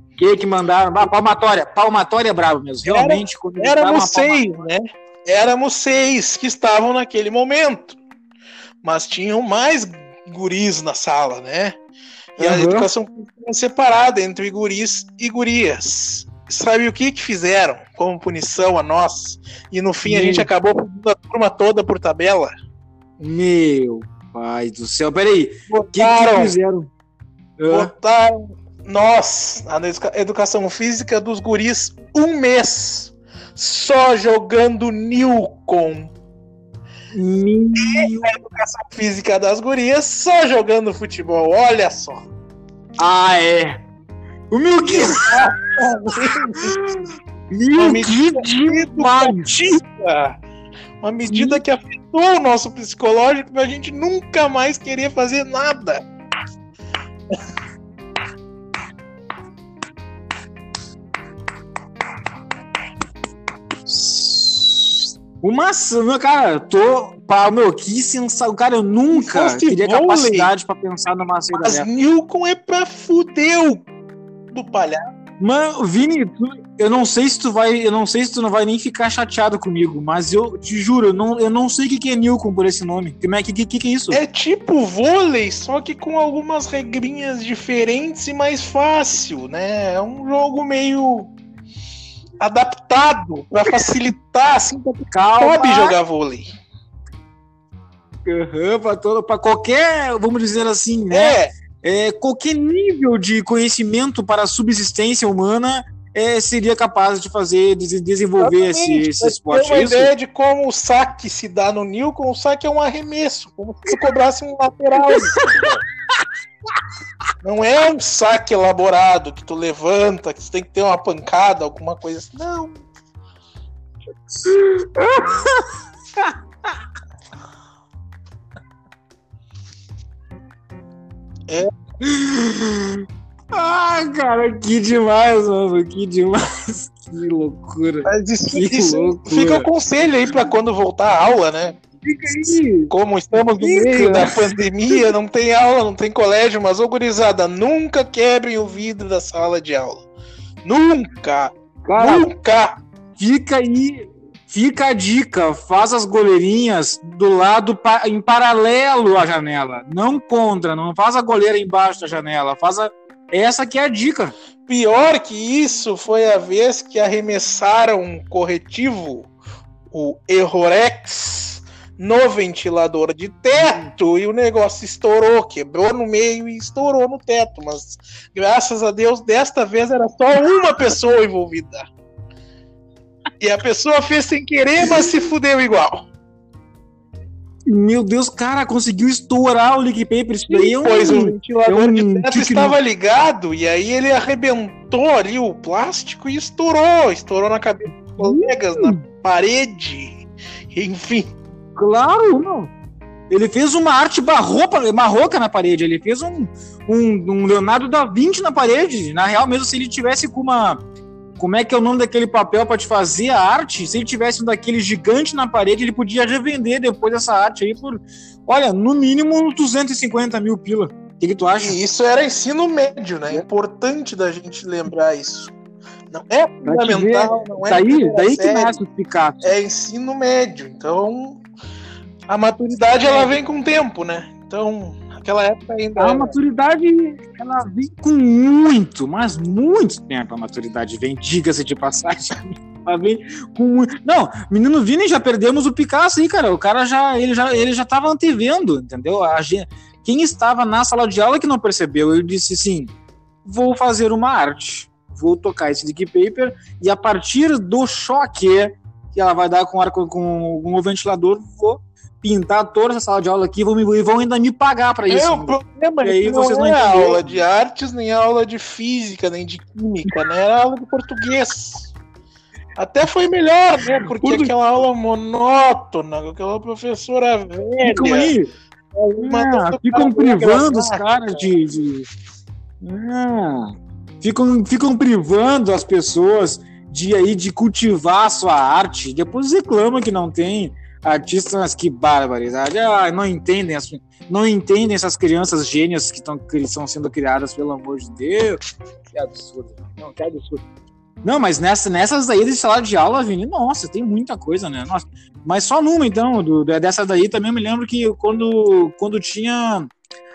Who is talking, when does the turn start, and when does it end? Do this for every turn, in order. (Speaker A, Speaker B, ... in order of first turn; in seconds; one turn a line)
Speaker A: 0.2-4.4
Speaker B: 2.9-8.0
Speaker B: 8.8-11.8
Speaker A: 12.4-12.9
Speaker B: 12.4-22.5
Speaker A: 20.0-20.5
Speaker A: 23.2-26.9
Speaker B: 25.7-26.6
Speaker A: 27.6-27.9
Speaker B: 27.7-36.1
Speaker A: 37.1-38.2
Speaker B: 37.8-42.2
Speaker A: 43.0-43.8
Speaker A: 44.5-45.4
Speaker B: 44.8-46.8
Speaker A: 47.5-49.8
Speaker B: 47.8-50.4
Speaker B: 51.0-56.0
Speaker A: 51.3-51.6
Speaker A: 63.9-71.9
Speaker B: 69.1-70.5
Speaker B: 71.6-73.9
Speaker B: 74.5-75.0
Speaker A: 75.4-84.2
Speaker B: 84.1-91.3
Speaker B: 92.4-96.5
Speaker A: 95.1-96.0
Speaker A: 98.2-110.1
Speaker B: 101.1-101.5
Speaker B: 108.4-115.8
Speaker A: 115.3-115.7
Speaker B: 117.4-122.8
Speaker A: 124.4-126.7
Speaker A: 132.0-139.7
Speaker B: 138.1-141.8
Speaker A: 142.0-145.0
Speaker B: 142.9-150.1
Speaker B: 150.6-152.8
Speaker A: 151.9-152.3
Speaker A: 153.2-164.3
Speaker B: 164.7-169.3
Speaker B: 169.9-181.8
Speaker B: 183.4-186.1
Speaker A: 187.7-192.8
Speaker B: 190.5-201.3
Speaker A: 198.2-199.0
Speaker A: 201.8-202.7
Speaker A: 203.3-210.8
Speaker A: 211.4-221.8
Speaker B: 221.6-225.5
Speaker B: 226.1-228.8
Speaker A: 226.6-229.6
Speaker B: 229.4-231.4
Speaker B: 232.3-236.3
Speaker A: 232.9-233.4
Speaker A: 236.0-252.9
Speaker A: 253.4-267.4
Speaker B: 265.1-271.9
Speaker B: 272.8-278.3
Speaker A: 273.9-274.5
Speaker A: 277.8-278.5
Speaker B: 278.9-281.4
Speaker A: 279.2-282.1
Speaker A: 282.8-298.6
Speaker A: 299.1-300.6
Speaker A: 301.2-309.9